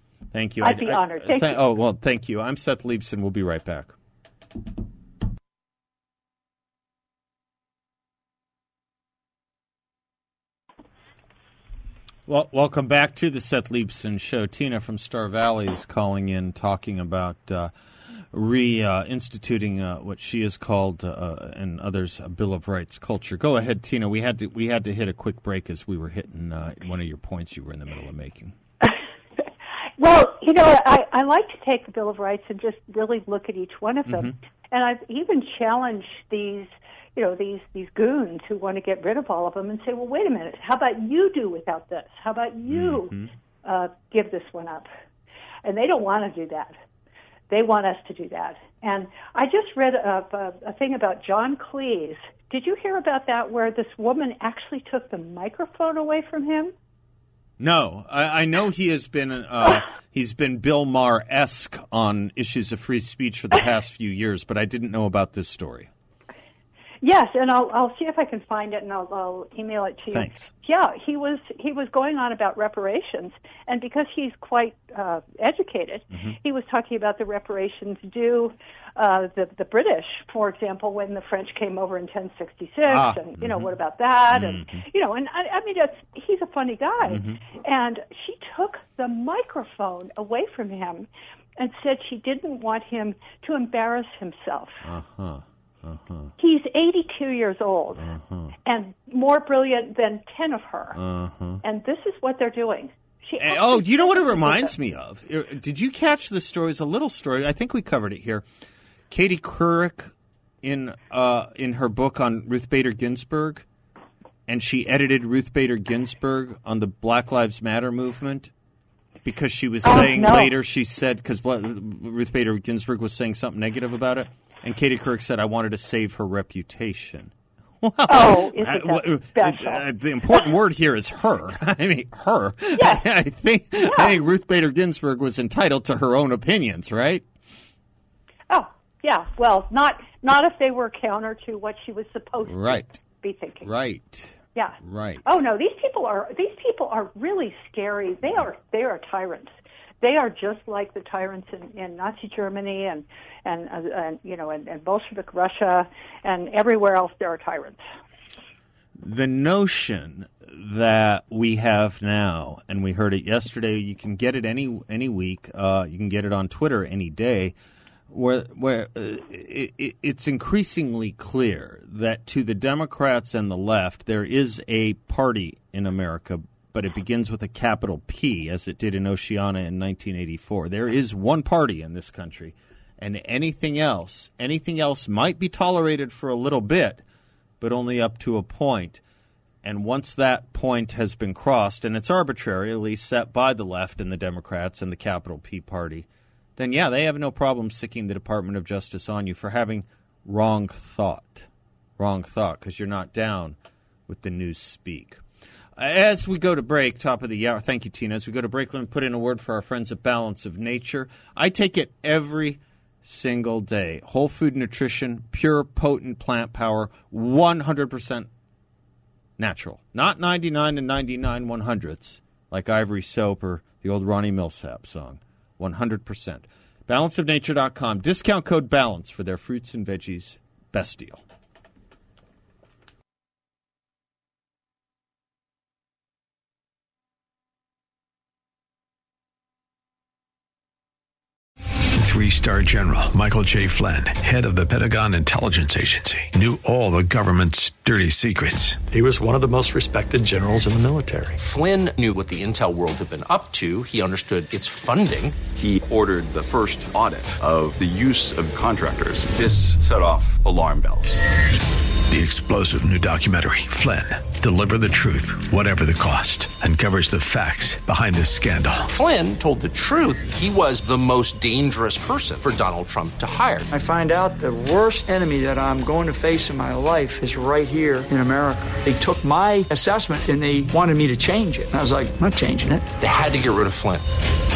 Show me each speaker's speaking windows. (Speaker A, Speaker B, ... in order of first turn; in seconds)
Speaker A: 0.3-3.9, 12.3-17.7, 18.3-28.5, 34.1-34.3, 42.7-43.3, 57.6-65.9, 70.1-70.5, 82.9-83.7, 84.3-84.8, 87.0-87.4, 94.8-96.3, 98.0-98.5, 100.9-101.6, 103.4-108.4, 109.1-113.7, 114.5-118.5, 119.2-137.2, 142.4-143.0, 143.6-145.4, 159.0-167.5, 168.1-187.0, 187.6-189.0, 189.6-203.6, 204.1-205.2, 205.8-218.3, 219.4-231.2
Speaker B: 0.6-1.6, 30.0-44.9, 45.6-46.7, 47.5-56.7, 67.0-94.8, 96.4-98.1, 98.7-101.0, 101.6-104.7, 119.8-120.5, 128.1-129.8, 132.8-133.1, 133.9-134.2, 138.5-143.7, 144.5-157.8
Speaker C: 241.9-248.9, 262.1-268.9
Speaker D: 248.9-251.4
Speaker E: 251.4-255.4, 268.9-273.7, 283.0-284.1
Speaker F: 255.5-261.2
Speaker G: 273.7-282.9